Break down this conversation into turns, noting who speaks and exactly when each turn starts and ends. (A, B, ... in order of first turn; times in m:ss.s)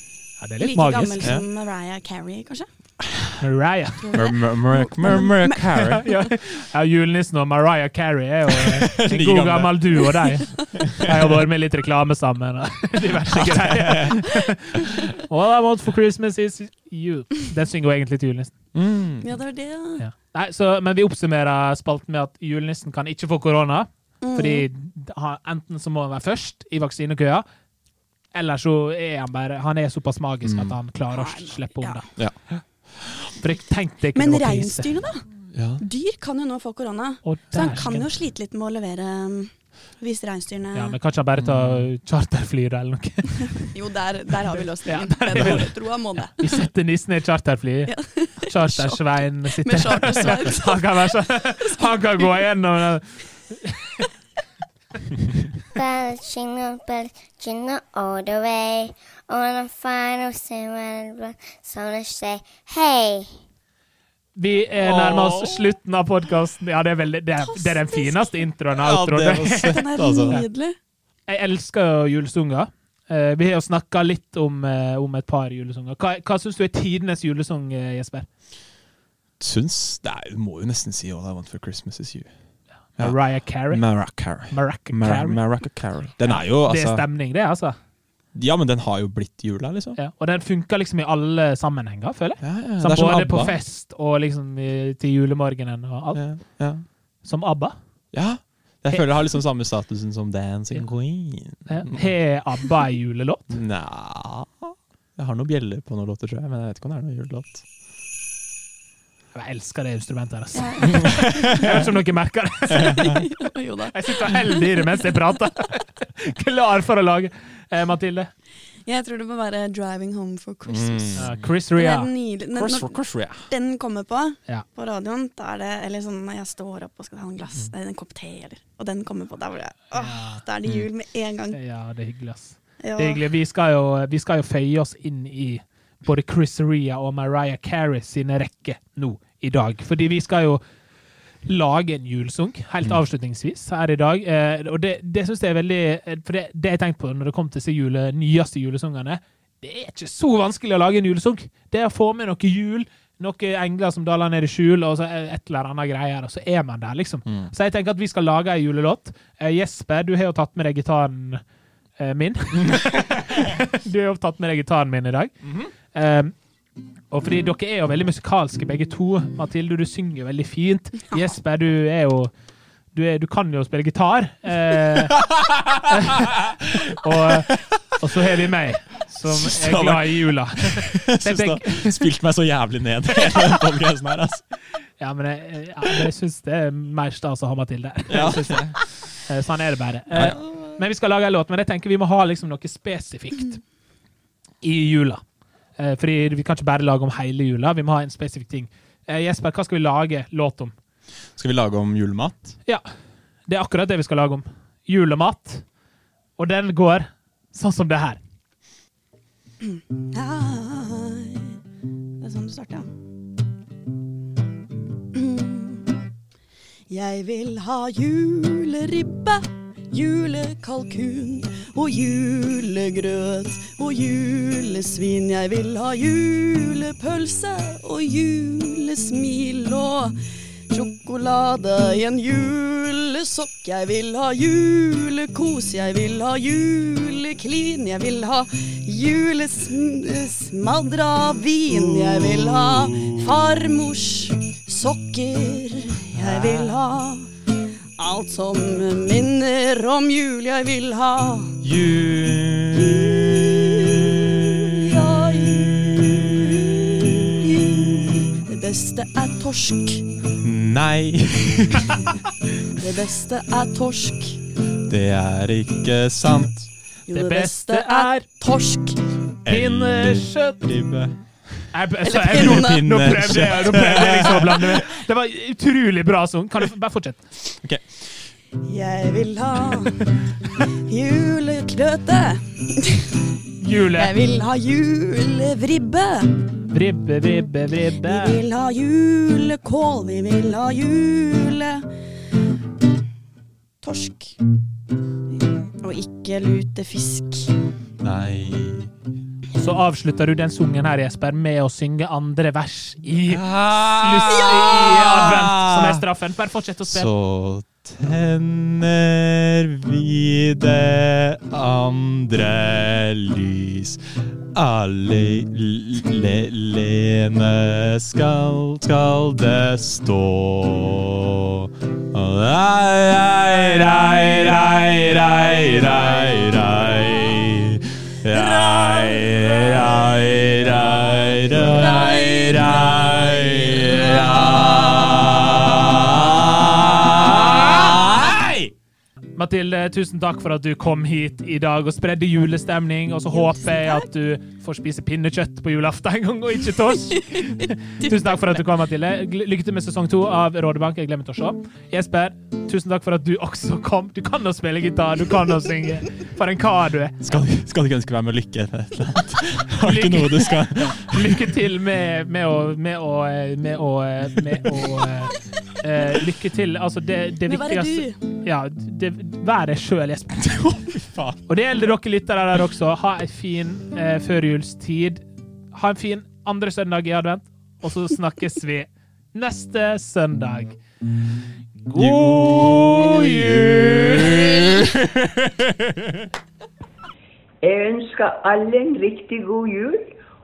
0:00.4-0:01.3 A
0:00.6-0:02.7 B
0:03.0-0:03.3 C
0:03.4-0:04.3 A
0:04.0-0:06.1 B
0:04.1-0:06.0 C
0:05.9-0:18.5 A
0:08.6-0:10.1 C
0:10.8-0:11.3 C
0:13.3-0:14.3 C
0:18.7-0:19.4 C
0:19.2-0:20.0 B
0:20.0-0:27.4 A
0:24.2-0:24.6 B
0:28.3-0:32.6 A
0:30.4-0:30.8 C
0:31.1-0:32.0 B
0:33.4-0:34.9 A
0:34.1-0:35.2 B
0:35.5-0:35.8 C
0:35.8-0:41.0 B
0:37.2-0:38.1 A
0:40.7-0:43.7 A
0:41.4-0:41.9 C
0:43.6-0:46.4 B
0:44.8-0:45.7 A
0:45.3-0:45.6 C
0:46.4-0:54.1 A
0:47.9-0:52.2 B
0:55.7-1:03.3 D
1:04.4-1:10.4 A
1:04.8-1:05.7 C
1:07.4-1:08.4 B
1:08.7-1:10.4 C
1:09.7-1:10.7 B
1:11.3-1:18.3 A
1:19.4-1:22.3 C
1:23.0-1:23.9 A
1:23.0-1:27.0 C
1:24.5-1:25.4 A
1:26.2-1:27.8 A
1:28.3-1:30.0 C
1:30.0-1:36.2 A
1:32.4-1:33.6 C
1:36.1-1:36.8 C
1:37.2-1:37.8 A
1:38.1-1:42.1 C
1:41.6-1:43.6 A
1:43.5-1:47.6 C
1:49.3-1:53.1 A
1:50.5-1:51.6 B
1:50.9-1:51.8 C
1:52.7-1:55.0 B
1:52.7-1:53.2 C
1:53.9-1:58.3 A
1:58.8-2:01.2 B
2:00.6-2:01.4 C
2:01.2-2:02.1 A
2:01.8-2:11.6 B
2:02.5-2:03.5 C
2:09.9-2:10.4 A
2:11.5-2:20.6 A
2:12.8-2:13.2 B
2:21.4-2:41.4 A
2:37.2-2:37.5 C
2:42.0-2:45.3 A
2:42.6-2:43.2 C
2:45.4-2:45.7 C
2:45.9-2:46.3 A
2:47.1-2:52.3 A
2:52.9-2:55.2 A
2:55.2-2:56.2 C
2:55.9-3:02.1 A
2:59.2-3:04.4 C
3:05.0-3:13.6 A
3:08.1-3:08.8 C
3:10.1-3:10.4 C
3:14.6-3:15.2 A
3:15.8-3:20.7 A
3:21.4-3:22.5 C
3:23.5-3:25.6 A
3:26.4-3:28.2 A
3:29.6-3:31.6 B
3:32.2-3:32.9 B
3:35.1-3:35.9 B
3:36.9-3:50.2 B
3:50.7-4:07.3 B
4:01.7-4:03.3 C
4:06.1-4:06.8 C
4:08.0-4:11.6 B
4:11.6-4:18.4 C
4:12.7-4:20.0 B
4:20.4-4:22.1 C
4:22.8-4:24.4 B
4:24.8-4:26.7 C
4:27.1-4:29.0 B
4:27.1-4:28.2 A
4:29.4-4:31.6 C
4:29.5-4:30.6 A
4:31.7-4:37.2 A
4:32.0-4:32.8 B
4:32.2-4:34.8 C
4:37.5-4:37.9 C
4:38.6-4:40.0 B
4:40.7-4:43.1 B
4:43.6-4:44.1 A
4:43.9-4:46.4 B
4:46.7-4:48.4 A
4:48.0-4:51.9 B
4:53.8-4:54.4 B
4:55.8-4:57.5 B
4:58.0-4:58.9 C
4:59.5-5:07.1 A
5:03.2-5:06.0 C
5:06.9-5:14.0 C
5:14.5-5:38.7 C
5:28.3-5:30.1 B
5:31.4-5:35.2 B
5:39.4-5:57.4 A
5:43.3-5:44.0 B
5:47.2-5:48.4 B
5:57.2-6:01.5 C
5:59.8-6:10.5 A
6:07.5-6:08.2 B
6:10.4-6:11.5 C
6:11.5-6:15.2 A
6:15.7-6:20.8 A
6:21.8-6:23.1 A
6:21.9-6:26.2 C
6:27.6-6:30.2 E